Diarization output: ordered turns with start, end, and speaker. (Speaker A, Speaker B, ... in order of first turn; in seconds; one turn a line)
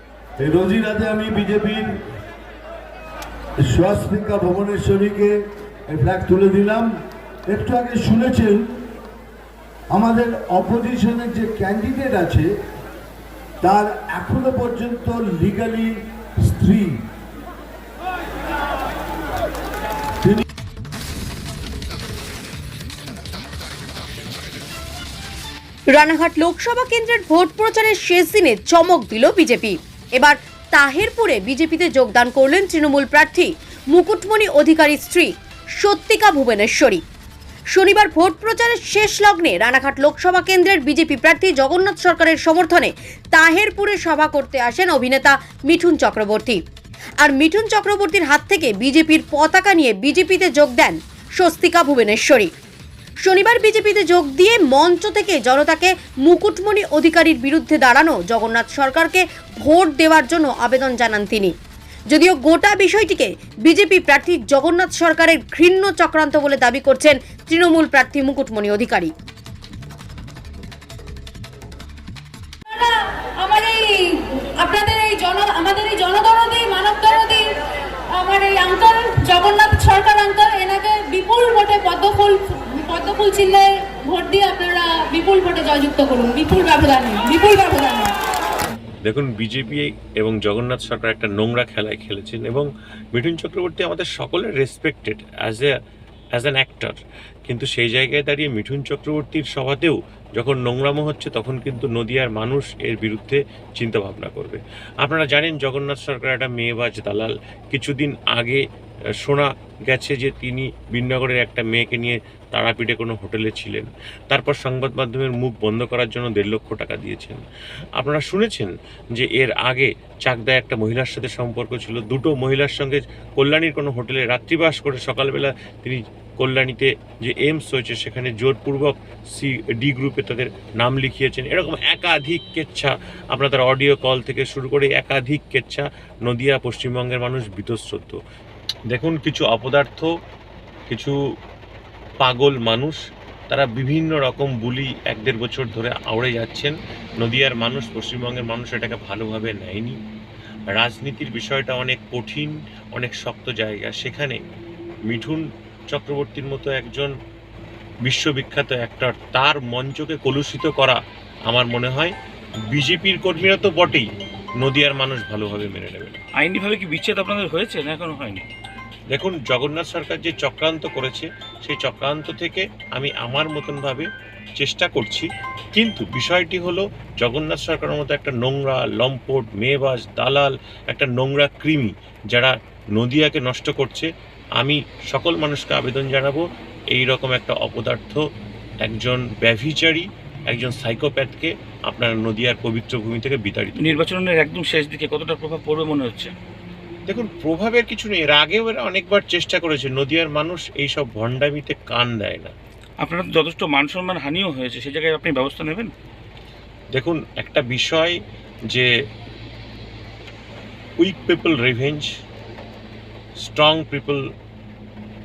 Speaker A: 0.4-2.0
Speaker A: 3.6-6.9
Speaker A: 7.5-8.8
Speaker A: 9.9-12.5
Speaker A: 13.6-17.0
Speaker B: 25.9-37.0
Speaker B: 37.7-46.6
Speaker B: 47.2-52.5
Speaker B: 53.2-61.5
Speaker B: 62.1-69.1
Speaker C: 72.7-77.5
Speaker C: 78.1-88.2
Speaker D: 89.0-95.7
Speaker D: 96.3-97.0
Speaker D: 97.5-108.6
Speaker D: 109.2-117.4
Speaker D: 118.0-138.2
Speaker D: 138.9-140.1
Speaker D: 140.9-141.1
Speaker D: 142.2-143.0
Speaker D: 143.5-150.0
Speaker D: 150.7-154.4
Speaker D: 155.1-157.1
Speaker D: 158.0-162.1
Speaker D: 162.7-164.1
Speaker D: 164.6-166.2
Speaker E: 166.4-168.4
Speaker D: 169.1-186.4
Speaker D: 186.9-188.2
Speaker D: 188.8-194.0
Speaker E: 193.8-196.3
Speaker D: 197.1-202.5
Speaker E: 203.0-205.9
Speaker D: 206.9-208.2
Speaker D: 211.0-212.1
Speaker D: 213.4-214.2